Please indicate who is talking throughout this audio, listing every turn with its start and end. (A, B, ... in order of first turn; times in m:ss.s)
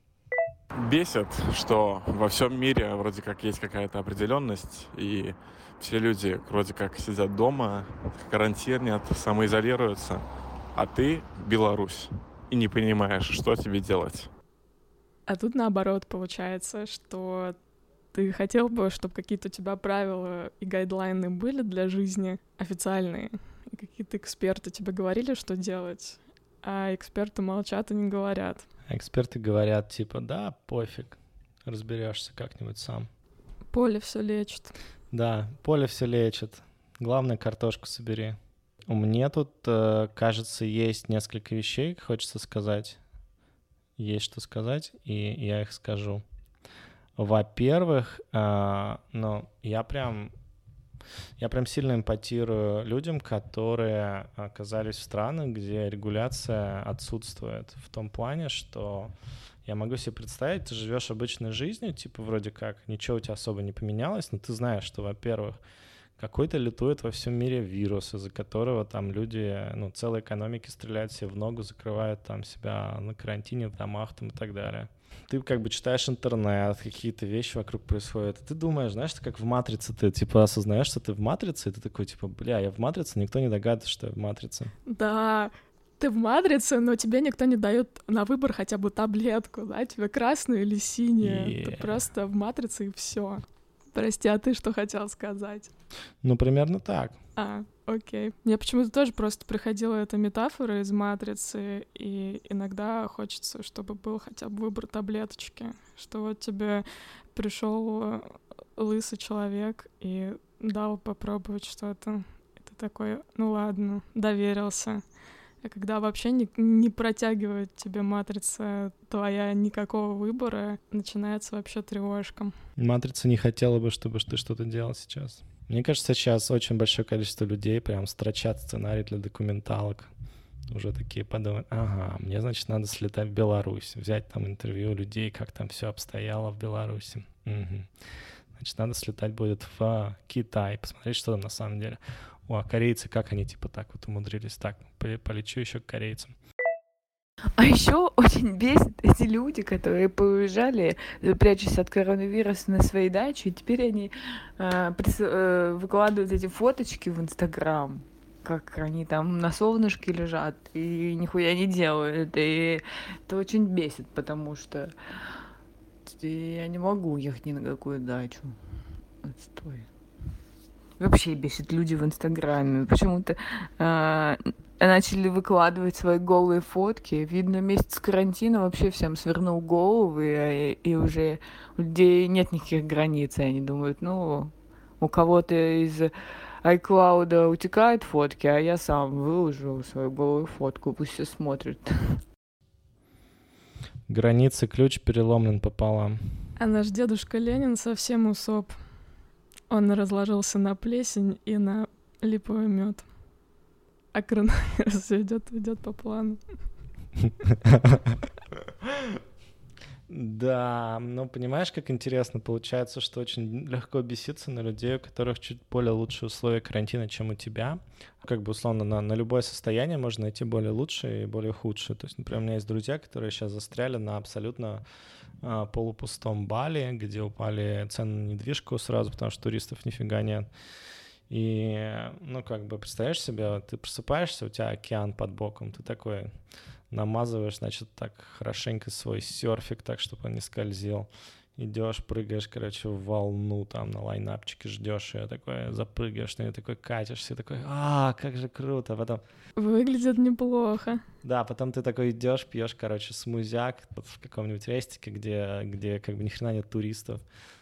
0:00.8-0:14.3 A
0:15.3-0:17.6 B
0:18.1-0:28.6 B
0:28.9-0:33.1 C
0:33.7-0:34.7 B
0:35.1-0:43.0 C
0:44.0-0:46.2 C
0:47.2-0:50.3 C
0:51.4-0:59.1 C
0:59.6-1:05.6 C
1:06.2-1:24.7 C
1:24.8-1:35.7 B
1:31.2-1:31.9 C
1:36.2-1:37.2 C
1:37.4-1:55.0 B
1:55.6-2:02.5 B
2:02.8-2:10.1 C
2:10.7-2:17.9 C
2:18.6-2:26.3 C
2:27.6-2:44.9 D
2:46.0-2:48.6 D
2:49.2-2:49.9 D
2:51.0-3:06.1 D
3:06.6-3:12.2 D
3:14.1-3:16.3 C
3:16.6-3:18.8 B
3:19.7-3:23.0 B
3:24.1-3:26.4 B
3:27.7-3:28.0 C
3:30.1-3:44.8 C
3:45.4-3:50.5 C
3:51.3-3:56.3 C
3:56.9-4:09.2 C
4:09.6-4:11.0 B
4:11.2-4:17.2 C